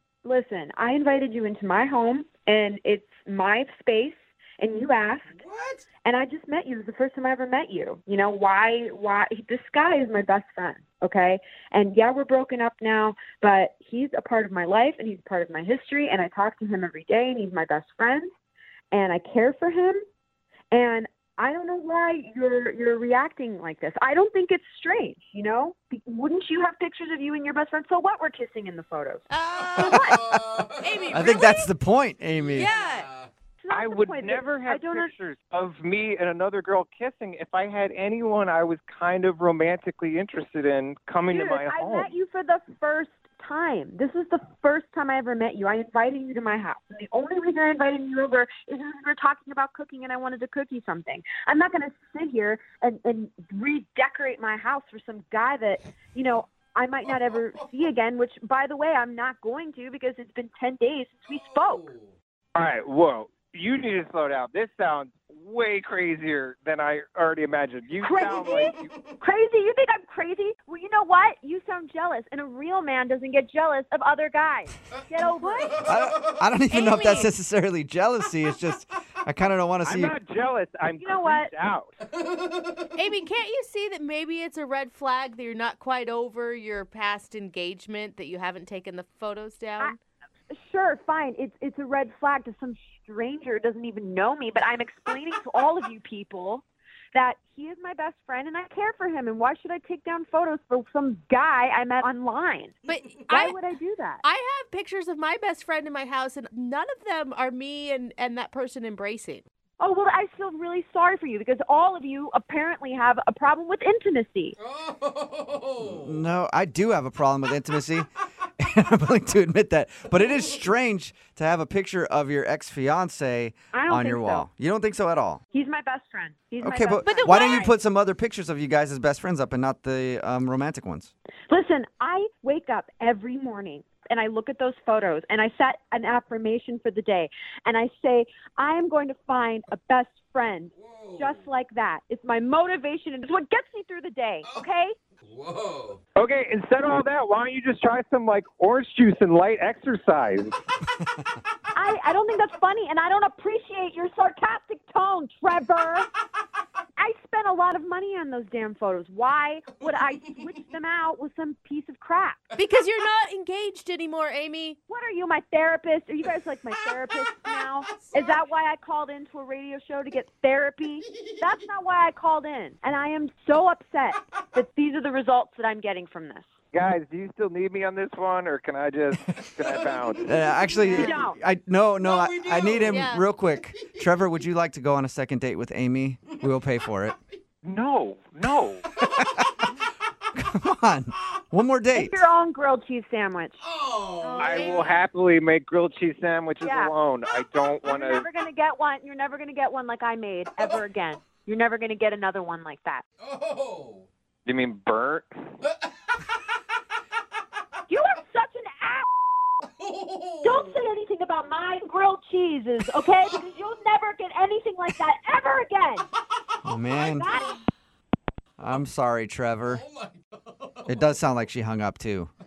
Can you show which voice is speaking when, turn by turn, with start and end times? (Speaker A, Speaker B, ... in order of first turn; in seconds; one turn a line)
Speaker A: 0.2-5.3
Speaker B: 5.3-5.8
Speaker A: 6.0-18.3
Speaker A: 18.9-20.0
Speaker A: 20.7-29.2
Speaker C: 29.3-30.1
Speaker A: 29.8-30.2
Speaker D: 29.8-30.5
Speaker B: 29.8-31.3
Speaker C: 30.8-31.7
Speaker D: 31.1-32.7
Speaker B: 32.3-33.3
Speaker C: 32.5-33.1
Speaker A: 33.6-35.1
Speaker E: 33.7-42.1
Speaker A: 41.3-61.9
Speaker B: 57.1-57.7
Speaker B: 61.3-62.1
Speaker E: 62.5-68.9
Speaker A: 68.0-75.9
Speaker D: 75.8-80.1
Speaker C: 76.7-77.3
Speaker E: 79.8-81.9
Speaker A: 81.0-81.5
Speaker B: 82.2-82.8
Speaker C: 82.9-90.0
Speaker A: 90.5-102.8
Speaker C: 102.9-103.6
Speaker A: 103.3-104.2
Speaker C: 104.2-109.4
Speaker A: 109.8-114.5
Speaker B: 114.6-116.2
Speaker D: 115.8-118.1
Speaker D: 118.6-125.4
Speaker A: 123.7-124.5
Speaker A: 125.5-127.7
Speaker D: 126.6-131.1
Speaker C: 127.0-127.7
Speaker A: 131.5-144.9
Speaker B: 140.8-141.4
Speaker B: 145.2-146.0
Speaker E: 146.2-150.6
Speaker A: 151.7-156.1
Speaker A: 157.0-162.4
Speaker C: 162.6-164.8
Speaker A: 164.9-176.5
Speaker E: 176.7-180.3
Speaker B: 179.4-181.0
Speaker D: 180.2-187.2
Speaker A: 180.8-181.4
Speaker C: 180.9-181.3
Speaker B: 182.0-183.1
Speaker C: 182.9-183.2
Speaker E: 187.6-188.8
Speaker D: 189.0-189.6
Speaker D: 190.3-192.2
Speaker A: 191.9-193.6
Speaker B: 193.7-194.9
Speaker C: 194.2-195.0
Speaker E: 194.4-198.3
Speaker A: 194.5-194.8
Speaker A: 196.6-196.9
Speaker A: 197.8-203.0
Speaker B: 203.2-204.1
Speaker E: 204.4-205.3
Speaker A: 207.9-209.1
Speaker B: 209.8-210.7
Speaker A: 210.4-216.1
Speaker D: 216.6-217.3
Speaker A: 217.0-217.5
Speaker D: 218.6-219.8
Speaker B: 219.8-220.9
Speaker D: 220.9-222.3